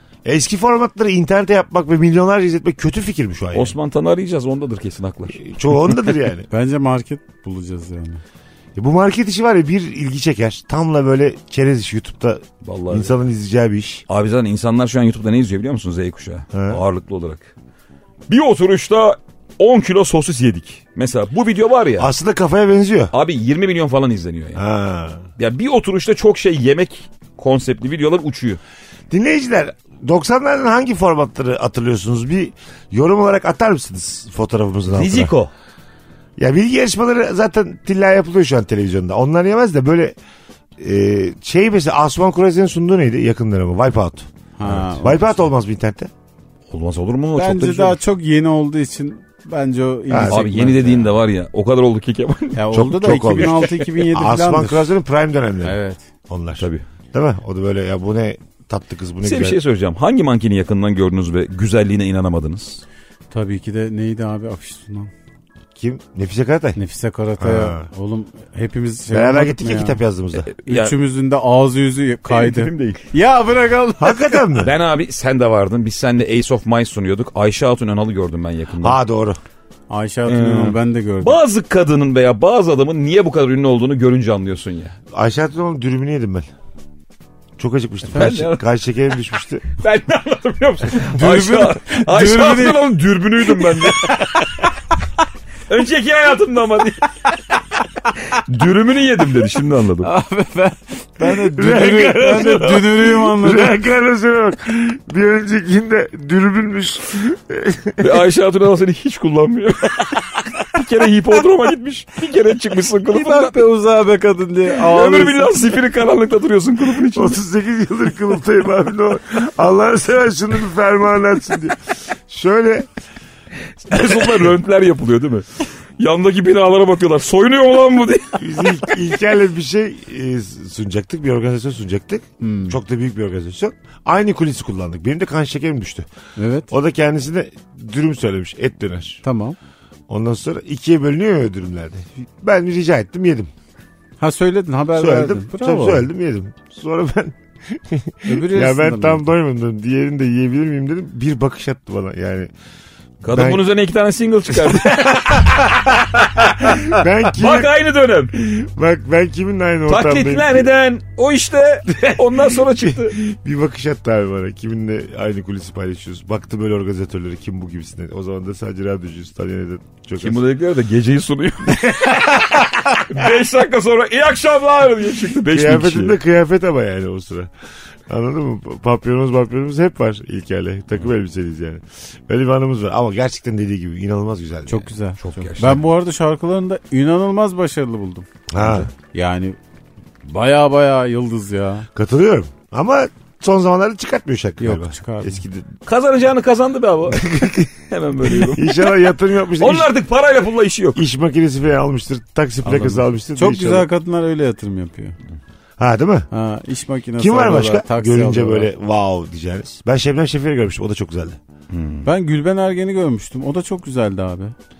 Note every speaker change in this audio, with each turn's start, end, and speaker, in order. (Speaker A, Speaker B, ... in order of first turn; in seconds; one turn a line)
Speaker A: 0.2-3.7
Speaker B: 3.5-5.5
Speaker A: 5.3-6.5
Speaker C: 6.5-8.2
Speaker A: 8.8-14.0
Speaker B: 12.6-13.2
Speaker B: 14.1-17.5
Speaker A: 16.5-16.8
Speaker B: 18.3-22.1
Speaker A: 22.0-23.1
Speaker B: 23.1-24.6
Speaker A: 24.6-25.2
Speaker B: 25.4-28.6
Speaker A: 29.1-35.3
Speaker B: 34.9-35.5
Speaker A: 36.4-40.1
Speaker A: 40.8-44.3
Speaker C: 44.6-45.4
Speaker B: 44.6-45.1
Speaker A: 45.0-46.1
Speaker B: 46.7-48.0
Speaker C: 47.4-51.1
Speaker A: 50.1-50.4
Speaker B: 50.3-54.1
Speaker C: 52.5-54.9
Speaker A: 52.7-55.8
Speaker C: 55.6-56.0
Speaker A: 56.3-59.6
Speaker B: 56.6-56.8
Speaker B: 59.2-62.8
Speaker C: 63.3-65.1
Speaker A: 65.8-66.8
Speaker C: 66.8-70.0
Speaker A: 67.4-67.9
Speaker A: 69.1-70.5
Speaker B: 70.4-70.9
Speaker C: 70.6-74.5
Speaker B: 72.3-73.1
Speaker A: 74.0-74.7
Speaker B: 74.6-79.0
Speaker A: 78.8-79.4
Speaker C: 79.9-81.4
Speaker B: 80.3-84.9
Speaker A: 85.1-86.5
Speaker A: 87.6-89.6
Speaker B: 88.1-88.6
Speaker B: 89.6-94.7
Speaker C: 91.1-92.9
Speaker B: 95.7-97.1
Speaker B: 98.3-100.1
Speaker C: 100.0-103.8
Speaker A: 101.5-108.2
Speaker B: 108.0-113.6
Speaker C: 113.1-115.7
Speaker B: 114.7-117.4
Speaker A: 117.1-122.9
Speaker B: 123.8-129.0
Speaker A: 128.4-136.1
Speaker C: 132.4-132.8
Speaker C: 136.4-136.7
Speaker A: 136.7-139.2
Speaker C: 139.2-139.6
Speaker A: 140.1-143.5
Speaker C: 144.2-146.1
Speaker A: 144.9-152.5
Speaker C: 148.3-149.2
Speaker B: 153.2-158.6
Speaker A: 153.3-153.6
Speaker A: 154.5-155.7
Speaker A: 156.6-157.7
Speaker A: 158.5-160.7
Speaker B: 159.9-163.2
Speaker A: 161.9-170.4
Speaker B: 170.2-176.2
Speaker A: 171.7-172.4
Speaker A: 175.5-177.5
Speaker A: 178.1-184.9
Speaker C: 184.7-188.2
Speaker B: 185.2-185.8
Speaker A: 188.5-188.9
Speaker B: 188.6-188.9
Speaker C: 189.1-189.6
Speaker C: 190.3-191.9
Speaker A: 191.9-195.7
Speaker C: 194.6-195.4
Speaker B: 195.8-198.9
Speaker A: 197.1-197.7
Speaker A: 198.2-199.9
Speaker B: 199.6-201.0
Speaker A: 200.9-203.9
Speaker C: 202.6-205.2
Speaker A: 205.8-206.3
Speaker C: 206.3-208.7
Speaker A: 207.2-211.4
Speaker B: 211.7-212.1
Speaker C: 212.0-214.5